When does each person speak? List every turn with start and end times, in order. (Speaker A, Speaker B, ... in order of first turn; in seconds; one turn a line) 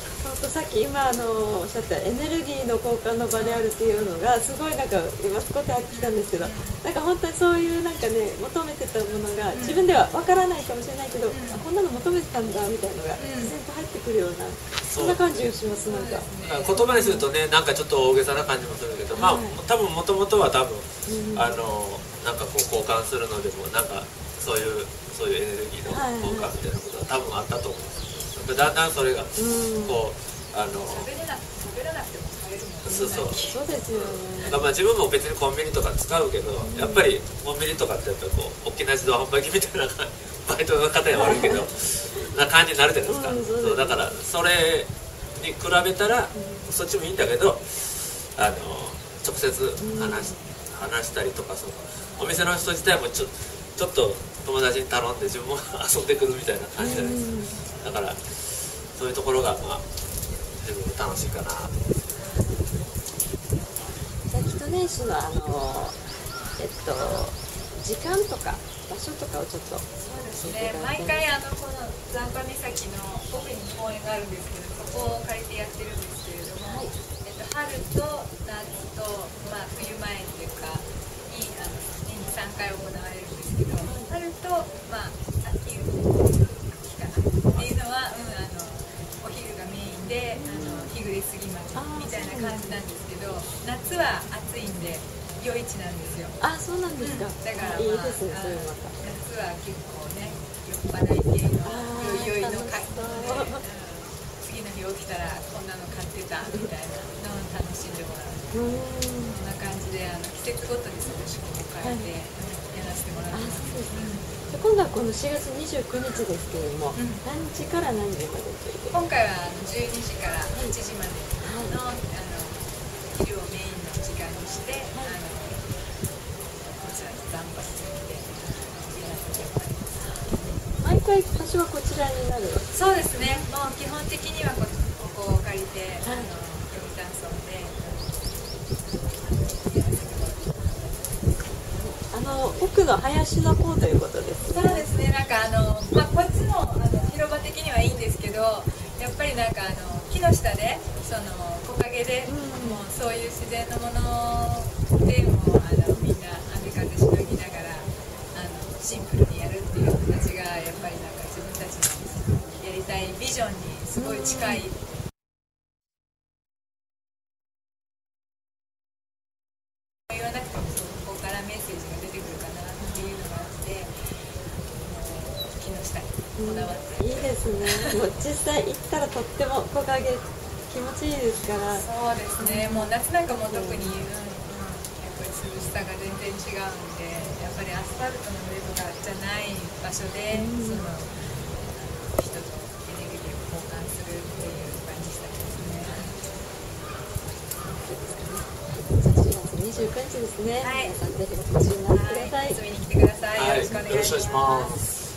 Speaker A: 0.2-17.3
Speaker B: 3.3-3.6
Speaker B: 5.9-6.8
Speaker B: 9.5-9.9
Speaker B: 11.3-11.7
Speaker B: 13.2-13.6
Speaker C: 14.9-15.4
Speaker B: 15.9-16.8
Speaker C: 16.4-31.1
Speaker A: 19.1-19.6
Speaker A: 21.1-21.6
Speaker A: 25.9-26.5
Speaker A: 29.4-30.0
Speaker B: 30.9-33.6
Speaker C: 32.9-59.9
Speaker A: 32.9-34.6
Speaker A: 36.6-37.1
Speaker A: 41.1-41.6
Speaker A: 43.1-44.1
Speaker A: 46.3-46.7
Speaker A: 49.8-50.4
Speaker A: 56.8-57.6
Speaker C: 60.6-61.8
Speaker B: 62.2-62.9
Speaker B: 63.5-64.0
Speaker A: 64.3-66.0
Speaker A: 66.6-71.3
Speaker B: 70.0-96.4
Speaker A: 76.6-76.9
Speaker A: 83.8-84.1
Speaker A: 90.4-90.9
Speaker A: 91.8-92.8
Speaker A: 96.4-98.9
Speaker B: 97.0-108.5
Speaker A: 101.7-103.6
Speaker A: 108.5-109.4
Speaker B: 109.3-114.3
Speaker A: 111.8-112.1
Speaker A: 113.3-119.0
Speaker B: 117.0-117.2
Speaker B: 118.9-125.7
Speaker A: 121.4-121.8
Speaker B: 126.7-130.6
Speaker A: 130.3-133.5
Speaker B: 132.7-141.4
Speaker A: 136.0-136.3
Speaker A: 141.8-144.9
Speaker B: 144.5-164.8
Speaker A: 152.3-152.9
Speaker A: 164.0-164.7
Speaker B: 170.1-173.9
Speaker A: 172.8-173.2
Speaker B: 174.7-178.0
Speaker A: 176.4-181.9
Speaker B: 181.7-196.1
Speaker A: 182.4-184.1
Speaker A: 190.3-190.9
Speaker A: 195.9-196.1
Speaker A: 197.7-202.6
Speaker B: 200.6-201.0
Speaker B: 201.9-204.8
Speaker C: 203.3-204.9